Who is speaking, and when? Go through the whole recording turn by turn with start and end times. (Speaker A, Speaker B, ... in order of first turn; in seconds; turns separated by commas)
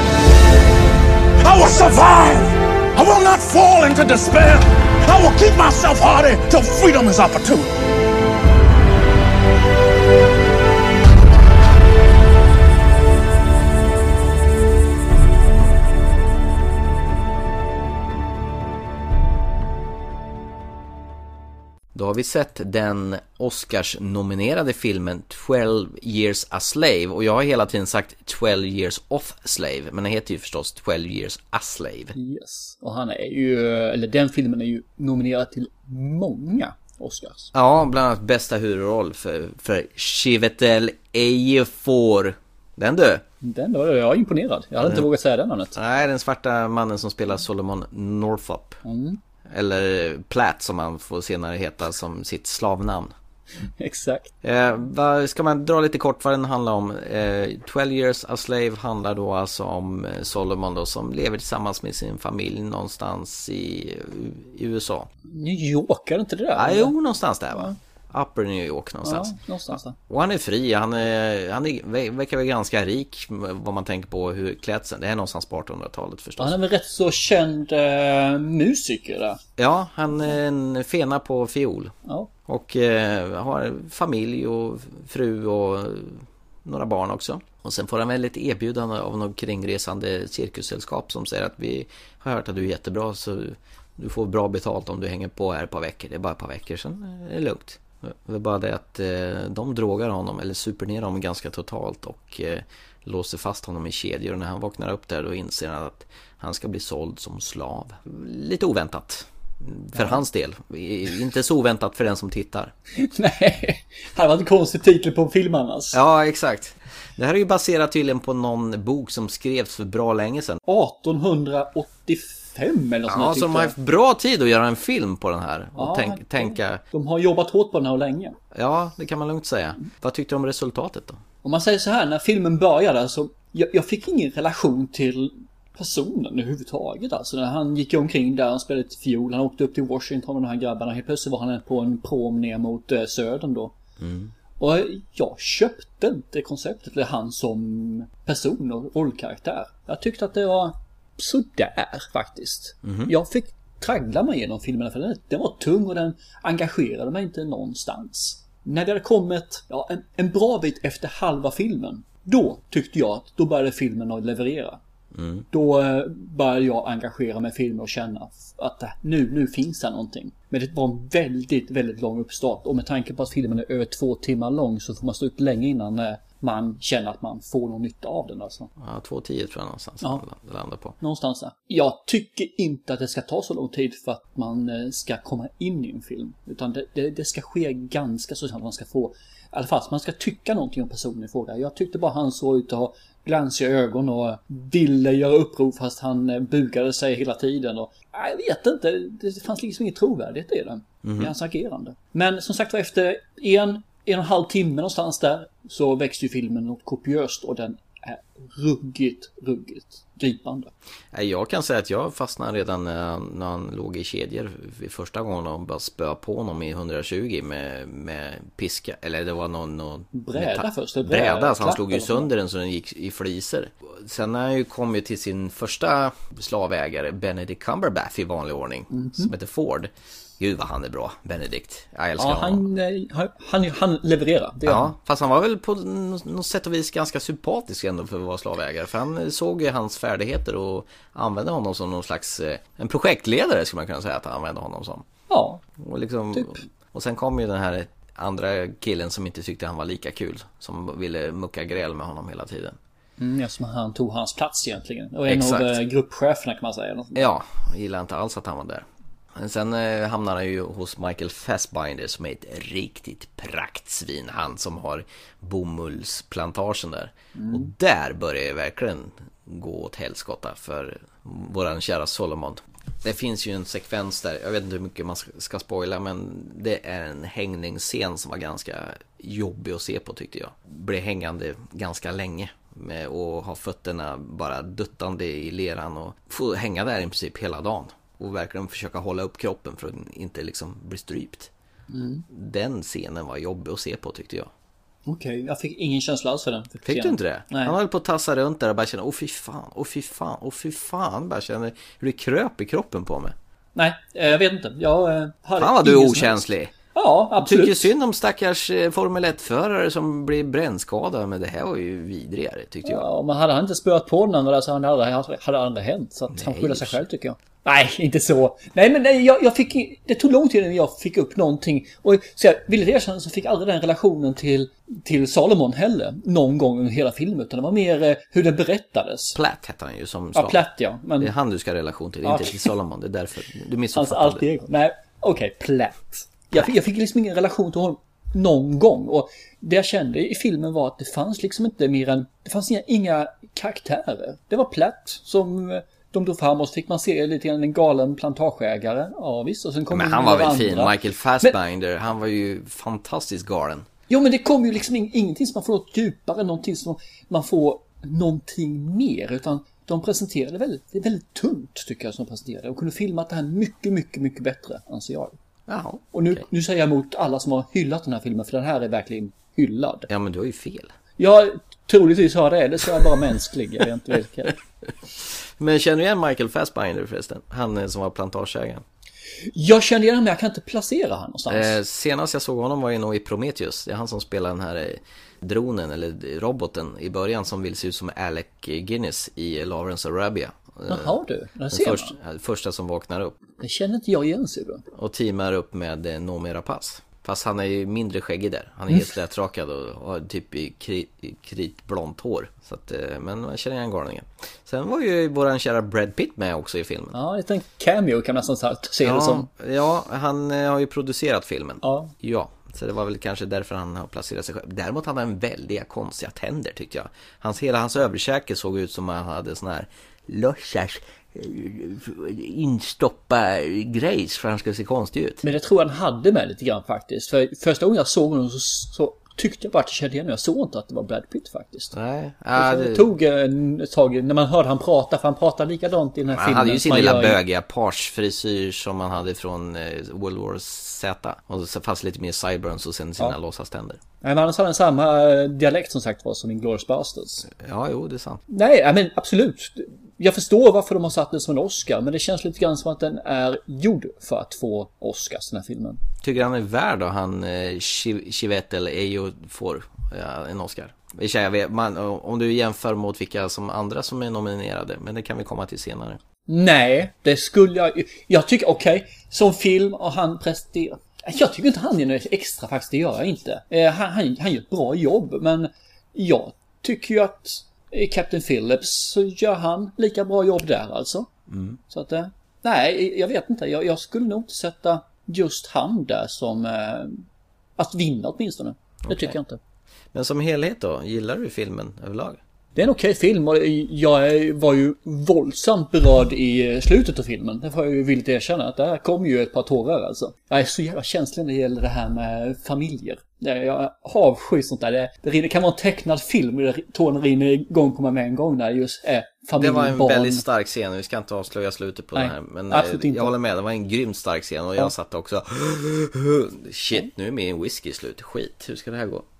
Speaker A: 1.4-7.7, Speaker B: 21.9-32.1, Speaker C: 32.1-37.5, Speaker B: 37.5-43.2, Speaker C: 43.4-45.8, Speaker B: 44.8-45.1, Speaker B: 45.7-48.8, Speaker C: 48.8-49.2, Speaker B: 49.5-53.1, Speaker C: 53.8-54.3, Speaker B: 54.4-65.1, Speaker C: 65.3-66.9, Speaker B: 66.5-76.6, Speaker C: 69.0-70.0, Speaker C: 76.4-79.4, Speaker B: 79.6-81.9, Speaker B: 82.5-112.7, Speaker C: 109.9-110.2, Speaker C: 113.0-116.0, Speaker B: 115.9-120.6, Speaker C: 120.7-123.7, Speaker B: 123.1-126.8, Speaker C: 125.8-128.4, Speaker B: 128.5-131.2, Speaker C: 131.4-143.7, Speaker B: 144.0-144.3, Speaker C: 144.6-164.8, Speaker B: 152.8-153.1, Speaker B: 165.1-165.4, Speaker C: 165.5-178.7, Speaker B: 178.8-180.9, Speaker C: 181.0-210.7, Speaker B: 201.0-201.3, Speaker B: 211.1-232.6, Speaker C: 220.1-222.3, Speaker C: 228.9-229.3, Speaker C: 232.2-234.9, Speaker B: 234.6-245.0, Speaker C: 245.3-245.6, Speaker B: 245.8-252.8, Speaker C: 253.2-257.3, Speaker B: 255.3-255.8, Speaker B: 257.1-291.5, Speaker C: 267.4-267.7, Speaker C: 291.9-292.2, Speaker B: 292.3-294.5, Speaker C: 295.1-297.8, Speaker B: 296.8-303.3, Speaker C: 303.8-307.9, Speaker B: 305.6-306.7, Speaker B: 307.4-313.1, Speaker C: 312.8-329.4, Speaker B: 316.3-317.0, Speaker B: 329.3-330.6, Speaker C: 330.3-331.3, Speaker B: 331.2-334.4, Speaker C: 332.2-332.7, Speaker C: 333.9-351.5, Speaker B: 349.9-353.9, Speaker C: 354.1-365.3, Speaker B: 365.7-366.4, Speaker C: 366.1-370.1, Speaker B: 370.1-370.9, Speaker C: 371.2-374.6, Speaker B: 375.6-378.8, Speaker C: 379.5-381.7, Speaker B: 381.5-391.1, Speaker C: 390.9-392.1, Speaker B: 391.7-393.3, Speaker C: 393.6-394.8, Speaker B: 394.9-407.1, Speaker C: 407.1-409.5, Speaker B: 409.0-425.4, Speaker C: 411.8-412.1, Speaker C: 425.4-431.9, Speaker B: 431.9-433.1, Speaker C: 432.5-437.4, Speaker B: 436.3-444.0, Speaker C: 444.2-447.5, Speaker B: 447.5-448.4, Speaker C: 448.5-456.0, Speaker B: 456.2-466.2, Speaker C: 466.5-481.3, Speaker B: 481.5-481.8, Speaker C: 481.9-487.2, Speaker C: 487.8-489.6, Speaker B: 489.0-489.4, Speaker B: 490.1-492.4, Speaker C: 492.8-510.4, Speaker B: 509.6-519.2, Speaker C: 512.1-513.3